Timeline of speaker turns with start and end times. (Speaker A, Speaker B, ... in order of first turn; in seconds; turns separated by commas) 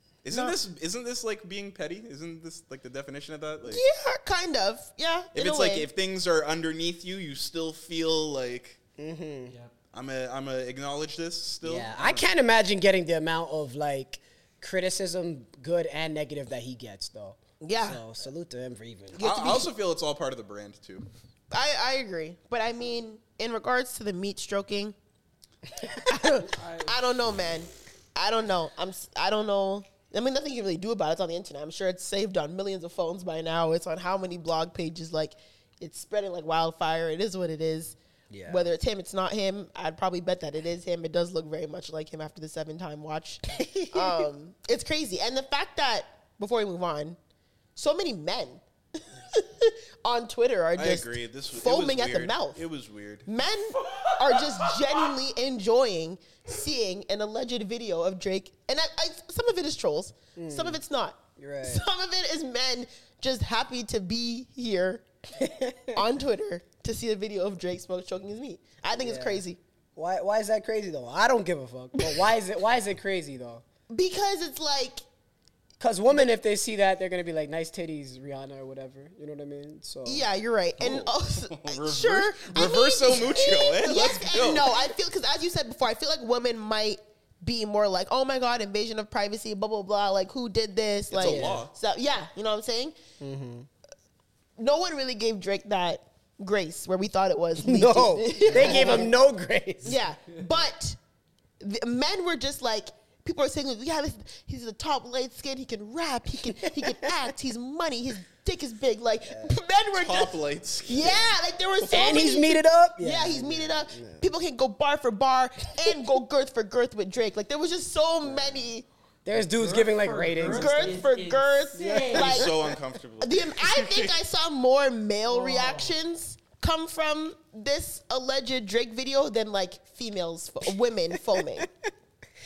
Speaker A: 0.2-3.8, Speaker B: 0.3-0.6, Speaker B: 3.7-5.9, Speaker A: 5.3-8.8, Speaker C: 9.0-9.5, Speaker D: 9.5-9.7, Speaker A: 9.9-12.3, Speaker C: 11.6-19.2, Speaker B: 17.6-18.0, Speaker B: 19.2-19.7, Speaker A: 19.2-21.1, Speaker B: 21.5-25.0, Speaker B: 26.1-38.0, Speaker D: 26.4-27.0, Speaker C: 38.3-38.7, Speaker B: 38.5-47.2, Speaker C: 43.6-44.3, Speaker B: 47.8-48.6, Speaker B: 49.3-52.6, Speaker A: 50.8-53.3, Speaker B: 53.3-65.0, Speaker D: 53.9-54.7, Speaker C: 60.4-60.8, Speaker C: 61.4-61.8, Speaker C: 65.4-66.0, Speaker B: 65.9-69.6, Speaker C: 68.9-69.4, Speaker C: 70.0-73.6, Speaker B: 72.0-72.2, Speaker B: 73.9-75.0, Speaker C: 75.8-80.3, Speaker B: 80.0-93.0, Speaker A: 80.8-84.7, Speaker A: 91.1-91.7, Speaker C: 91.2-91.7, Speaker C: 93.2-93.7, Speaker B: 94.6-99.1, Speaker C: 97.6-100.0, Speaker B: 99.8-101.0, Speaker B: 101.6-118.9, Speaker C: 106.5-107.1, Speaker C: 109.3-109.6, Speaker A: 110.0-112.2, Speaker C: 111.9-114.3, Speaker C: 118.2-118.7, Speaker C: 119.2-121.1, Speaker D: 119.5-122.5, Speaker B: 120.5-122.5, Speaker C: 121.8-122.7, Speaker A: 122.2-124.2, Speaker B: 123.2-131.7, Speaker D: 125.3-126.0, Speaker C: 131.3-131.6